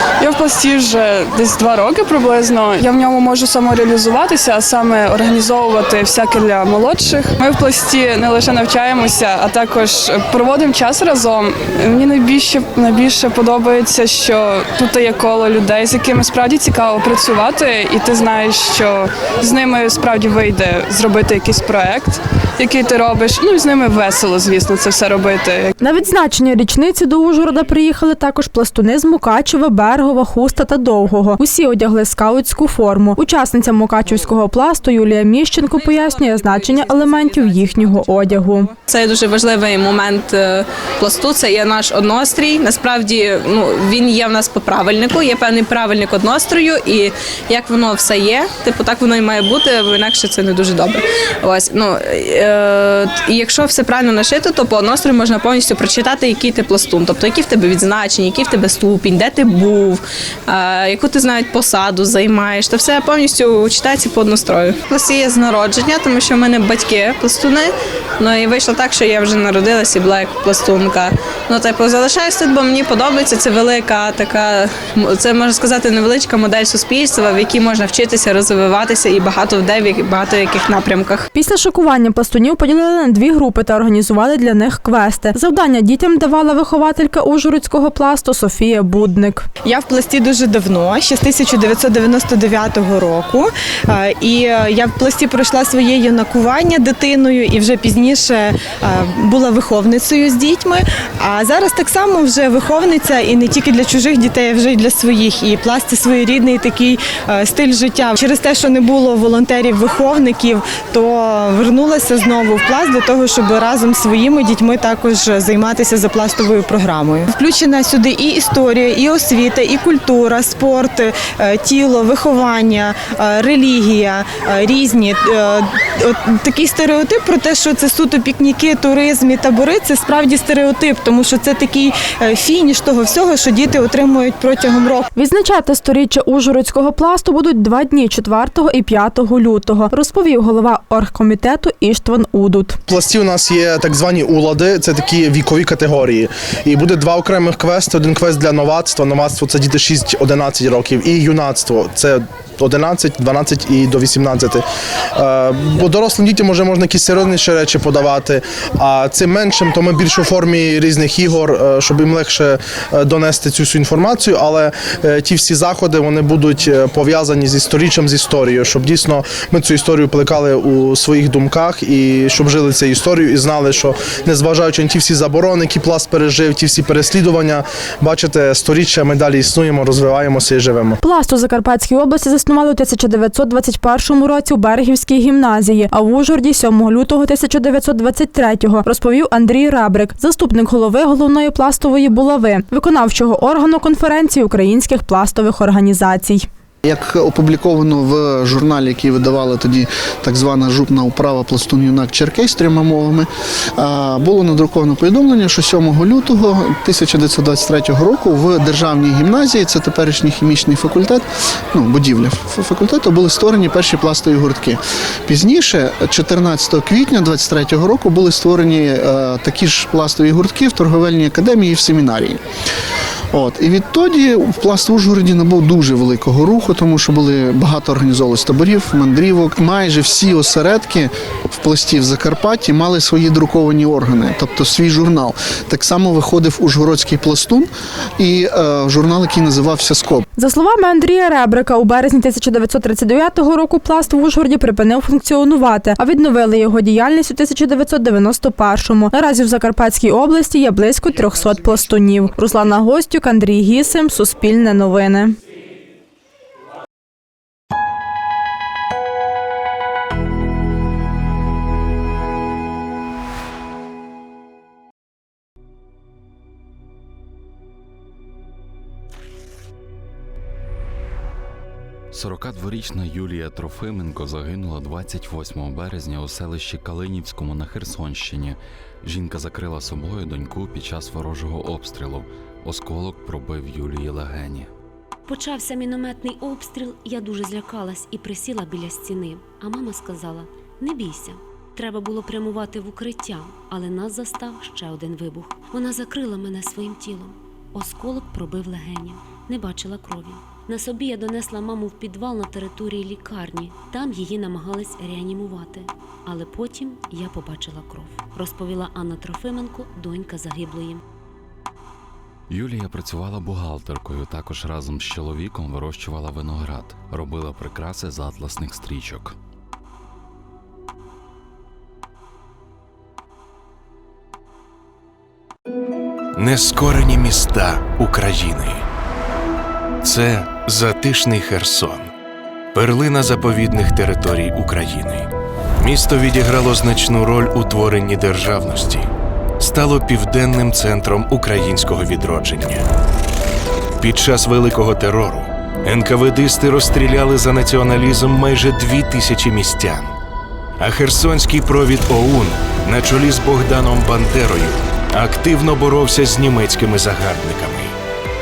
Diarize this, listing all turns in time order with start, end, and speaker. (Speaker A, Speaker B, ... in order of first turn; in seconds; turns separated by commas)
Speaker A: 0.2-25.7, Speaker B: 25.8-38.7, Speaker C: 35.7-81.3, Speaker B: 81.3-89.5, Speaker D: 89.6-135.1, Speaker B: 135.1-142.8, Speaker E: 142.9-154.6, Speaker E: 155.2-181.0, Speaker B: 181.0-196.5, Speaker F: 196.8-222.4, Speaker F: 223.3-240.2, Speaker B: 240.4-255.4, Speaker G: 272.1-284.7, Speaker H: 285.3-311.0, Speaker G: 312.5-319.4, Speaker I: 326.4-328.9, Speaker I: 330.0-332.1, Speaker I: 332.7-335.3, Speaker I: 335.8-342.9, Speaker I: 344.0-350.1, Speaker I: 350.8-357.9